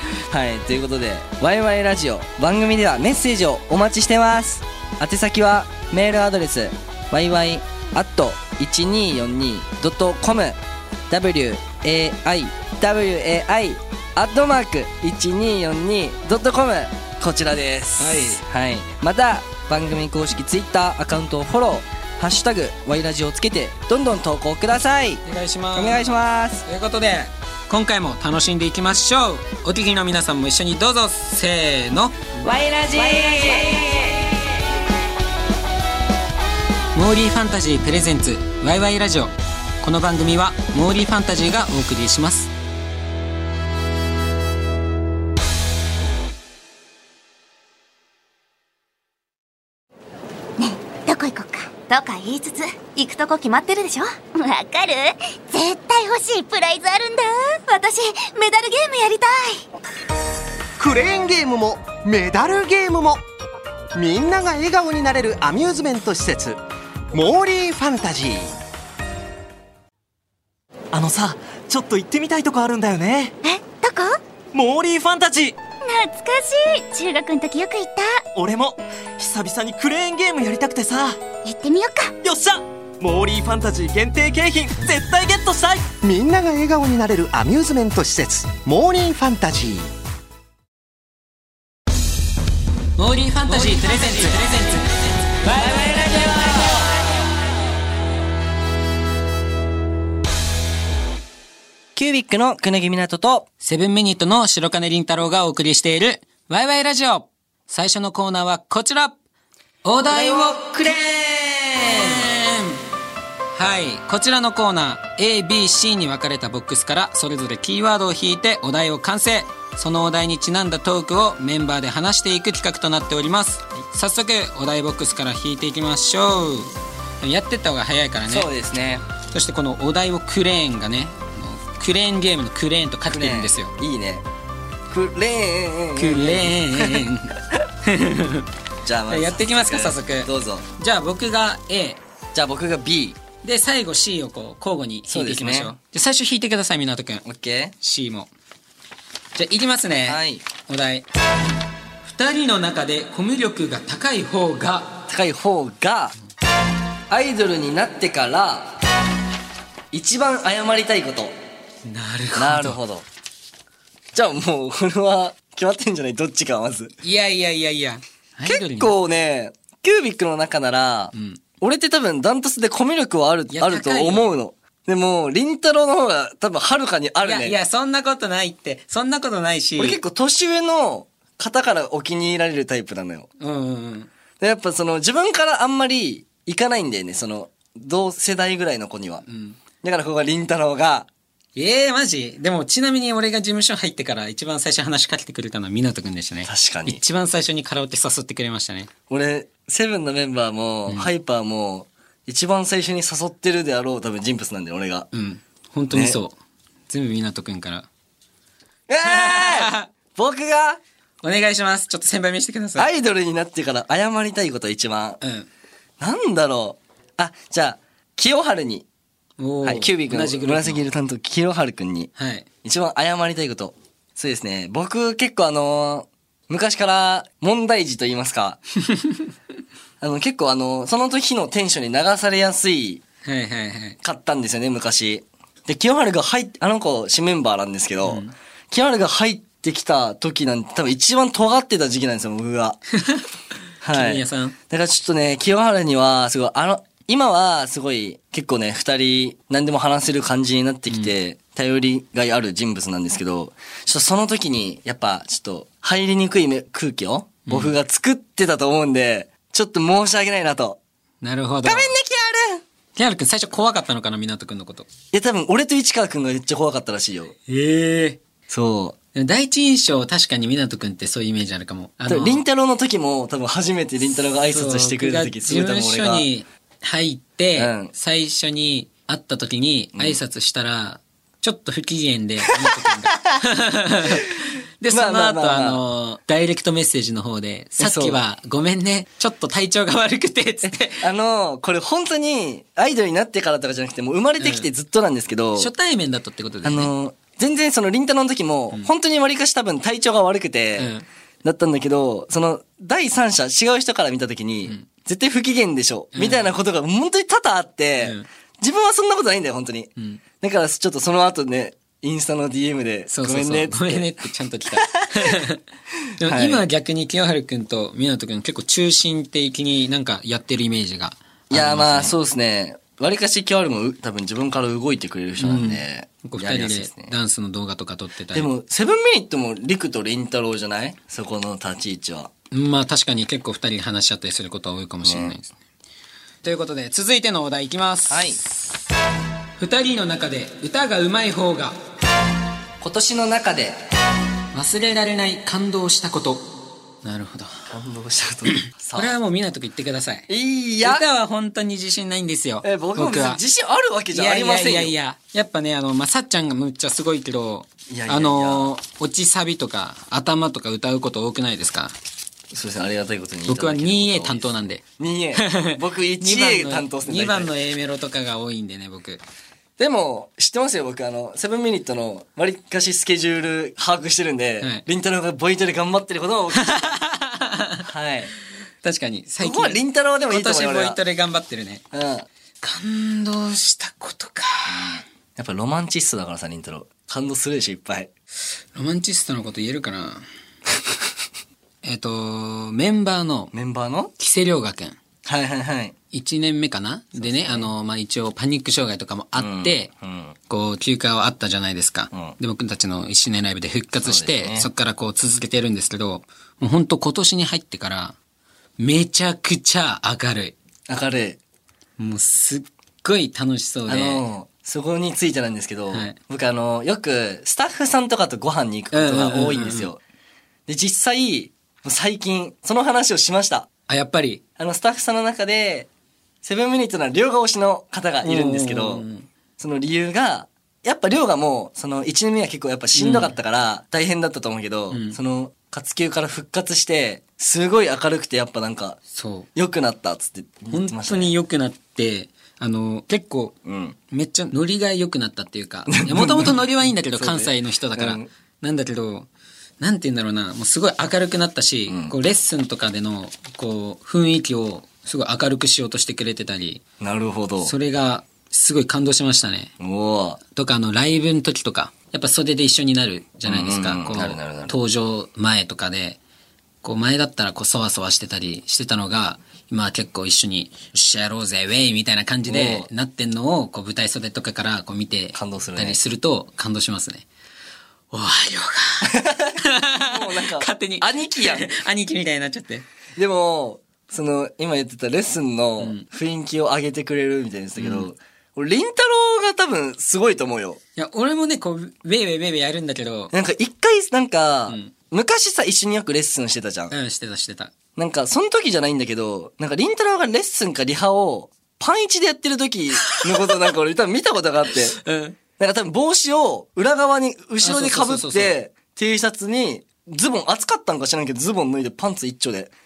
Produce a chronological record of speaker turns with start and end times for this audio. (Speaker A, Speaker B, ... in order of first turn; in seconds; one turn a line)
Speaker A: 0.2-26.7
Speaker B: 18.0-18.4
Speaker B: 25.2-33.7
Speaker C: 33.0-34.2
Speaker B: 37.0-42.5
Speaker C: 50.6-59.7
Speaker D: 60.8-63.2
Speaker D: 64.0-66.6
Speaker D: 67.1-68.5
Speaker E: 70.9-73.3
Speaker C: 73.4-74.2
Speaker E: 74.5-75.6
Speaker C: 75.8-78.2
Speaker E: 78.3-81.2
Speaker C: 81.5-82.2
Speaker E: 82.2-86.0
Speaker D: 86.0-89.9
Speaker B: 93.0-96.4
Speaker A: 102.0-103.5
Speaker B: 103.6-109.2
Speaker B: 109.8-111.0
Speaker A: 110.1-112.3
Speaker B: 111.8-112.8
Speaker B: 113.6-128.5
Speaker A: 128.3-129.0
Speaker B: 129.2-133.7
Speaker A: 133.1-134.2
Speaker A: 134.9-137.0
Speaker B: 136.0-138.5
Speaker A: 138.8-140.7
Speaker B: 139.1-142.0
Speaker A: 142.3-143.2
Speaker B: 143.4-147.2
Speaker A: 145.1-145.8
Speaker A: 147.2-147.7
Speaker B: 147.8-148.3
Speaker B: 149.3-151.1
Speaker A: 150.1-150.4
Speaker B: 152.0-154.9
Speaker A: 155.1-156.2
Speaker A: 157.1-158.8
Speaker A: 159.9-161.3
Speaker B: 161.8-162.8
Speaker A: 162.4-163.1
Speaker A: 164.1-166.9
Speaker B: 167.0-169.0
Speaker A: 168.4-177.6
Speaker B: 171.1-171.4
Speaker B: 173.5-174.3
Speaker B: 177.2-180.0
Speaker A: 179.8-183.3
Speaker B: 183.4-184.1
Speaker A: 184.4-189.2
Speaker B: 189.3-189.6
Speaker A: 189.8-191.1
Speaker B: 191.6-198.9
Speaker A: 196.5-197.0
Speaker A: 199.1-205.1
Speaker B: 205.1-206.4
Speaker A: 205.9-206.2
Speaker B: 206.9-207.9
Speaker A: 208.9-210.8
Speaker B: 209.0-209.9
Speaker B: 211.2-212.9
Speaker A: 212.8-215.2
Speaker B: 215.2-215.5
Speaker A: 216.0-218.9
Speaker B: 219.4-220.8
Speaker A: 219.6-222.1
Speaker B: 222.2-222.5
Speaker A: 222.6-228.6
Speaker B: 228.9-229.3
Speaker A: 230.0-233.0
Speaker B: 233.2-234.0
Speaker A: 234.0-242.8
Speaker B: 238.0-238.3
Speaker B: 243.0-243.2
Speaker A: 243.8-260.8
Speaker B: 243.9-244.6
Speaker B: 257.5-257.7
Speaker B: 261.2-261.9
Speaker A: 261.6-262.6
Speaker B: 262.9-264.9
Speaker A: 265.1-267.4
Speaker B: 267.5-268.2
Speaker A: 268.5-269.0
Speaker B: 269.1-272.4
Speaker A: 272.1-276.3
Speaker B: 274.5-291.1
Speaker A: 277.6-277.9
Speaker A: 279.9-280.2
Speaker A: 282.6-283.2
Speaker A: 284.9-285.8
Speaker A: 287.8-288.2
Speaker A: 290.6-295.7
Speaker B: 294.4-294.7
Speaker B: 295.6-296.9
Speaker A: 296.6-300.9
Speaker B: 300.8-301.1
Speaker A: 301.4-314.1
Speaker B: 306.1-306.5
Speaker B: 308.0-308.3
Speaker B: 313.1-315.6
Speaker A: 314.8-315.4
Speaker B: 316.2-322.1
Speaker A: 316.2-316.6
Speaker A: 321.5-327.1
Speaker B: 325.4-328.5
Speaker A: 328.3-332.3
Speaker B: 332.5-335.5
Speaker A: 335.1-335.4
Speaker B: 336.4-338.6
Speaker A: 338.1-338.4
Speaker B: 339.6-341.8
Speaker A: 342.8-343.8
Speaker B: 344.5-346.4
Speaker B: 347.0-347.6
Speaker A: 347.7-349.1
Speaker B: 348.5-350.3
Speaker A: 350.3-351.0
Speaker B: 350.8-353.4
Speaker A: 352.6-354.9
Speaker B: 354.1-361.9
Speaker A: 357.9-358.7
Speaker A: 362.5-367.5
Speaker B: 363.5-364.8
Speaker B: 365.4-369.2
Speaker A: 369.8-377.0
Speaker B: 376.6-377.9
Speaker A: 377.8-378.3
Speaker B: 378.8-381.8
Speaker A: 379.4-381.0
Speaker A: 381.9-382.3
Speaker B: 382.6-385.0
Speaker A: 384.7-388.1
Speaker B: 388.7-390.2
Speaker B: 391.8-393.5
Speaker A: 393.5-394.1
Speaker B: 394.2-395.0
Speaker A: 395.2-395.9
Speaker B: 396.1-399.9
Speaker A: 397.2-397.7
Speaker A: 399.4-400.4
Speaker B: 400.5-408.1
Speaker A: 404.0-404.7
Speaker B: 408.8-410.6
Speaker A: 410.9-411.4
Speaker B: 412.0-414.2
Speaker A: 413.9-420.0
Speaker B: 415.9-416.2
Speaker B: 418.9-419.9
Speaker A: 420.7-423.7
Speaker B: 423.9-424.4
Speaker A: 424.6-425.9
Speaker A: 426.4-429.1
Speaker B: 428.2-429.3
Speaker A: 429.6-439.0
Speaker B: 432.9-433.4
Speaker B: 434.9-435.2
Speaker B: 439.1-439.5
Speaker A: 439.6-441.4
Speaker B: 440.7-443.6
Speaker A: 443.6-444.0
Speaker B: 444.1-449.3
Speaker A: 445.9-448.3
Speaker B: 449.8-456.8
Speaker A: 451.9-452.1
Speaker A: 457.0-457.7
Speaker B: 457.6-459.7
Speaker A: 459.8-460.4
Speaker B: 460.5-466.2
Speaker A: 463.4-464.8
Speaker B: 466.8-477.3
Speaker A: 472.5-472.9
Speaker A: 475.3-476.0
Speaker B: 478.1-482.9
Speaker A: 479.0-481.7
Speaker A: 483.2-490.8
Speaker B: 485.8-486.1
Speaker B: 487.8-488.1
Speaker B: 491.0-493.3
Speaker A: 493.3-496.9
Speaker B: 494.7-494.9
Speaker B: 496.9-497.7
Speaker A: 498.0-505.0
Speaker B: 504.9-505.4
Speaker A: 505.6-512.7
Speaker B: 507.6-508.6